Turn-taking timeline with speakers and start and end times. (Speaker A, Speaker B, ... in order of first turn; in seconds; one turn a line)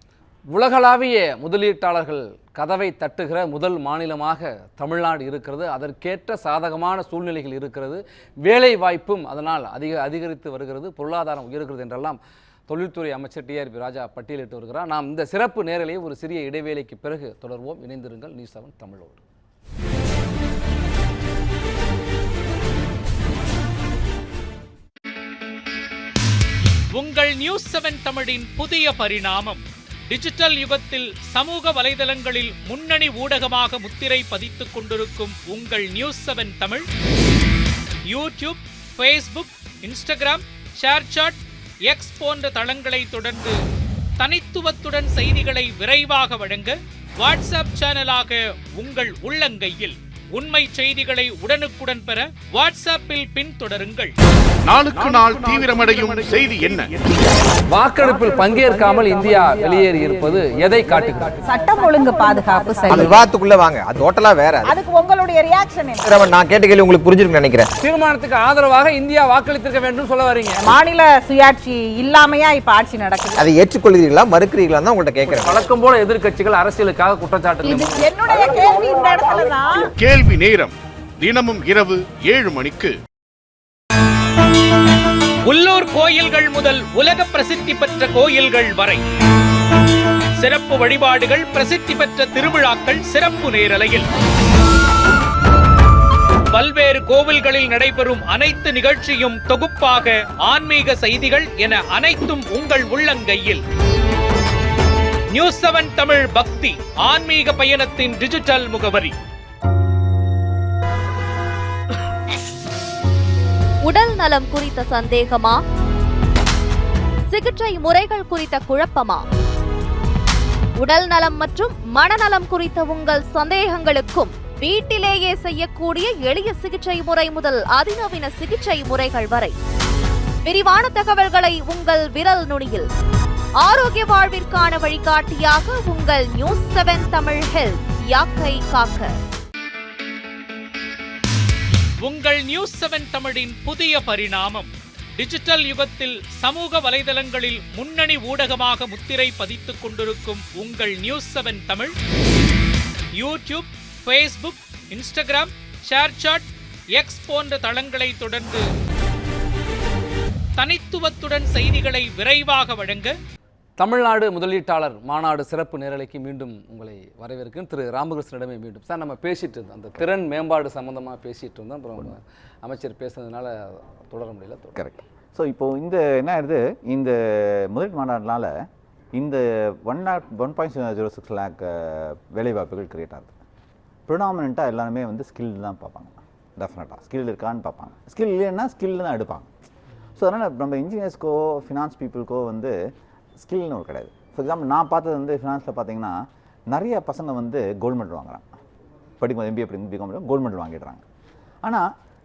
Speaker A: 0.5-19.2
Speaker B: 26.9-36.9
Speaker B: 38.1-43.6
Speaker B: 44.2-54.1
Speaker C: 54.7-57.0
Speaker A: 57.7-61.4
Speaker D: 61.4-63.2
Speaker E: 62.9-64.7
Speaker D: 64.7-66.1
Speaker E: 66.0-67.7
Speaker A: 67.8-70.7
Speaker D: 70.6-73.4
Speaker E: 73.4-75.6
Speaker A: 75.3-78.0
Speaker D: 77.6-79.9
Speaker C: 80.0-83.0
Speaker B: 85.5-89.0
Speaker B: 90.4-94.1
Speaker B: 96.5-103.6
Speaker B: 105.3-109.1
Speaker F: 113.8-115.6
Speaker F: 117.3-119.2
Speaker F: 120.8-129.6
Speaker F: 130.4-132.9
Speaker F: 133.6-139.1
Speaker B: 142.0-151.9
Speaker B: 153.2-158.7
Speaker B: 160.6-163.2
Speaker A: 163.8-175.0
Speaker G: 174.8-183.4
Speaker G: 184.1-189.5
Speaker G: 190.2-192.7
Speaker G: 193.4-198.5
Speaker G: 199.2-201.0
Speaker G: 201.6-201.9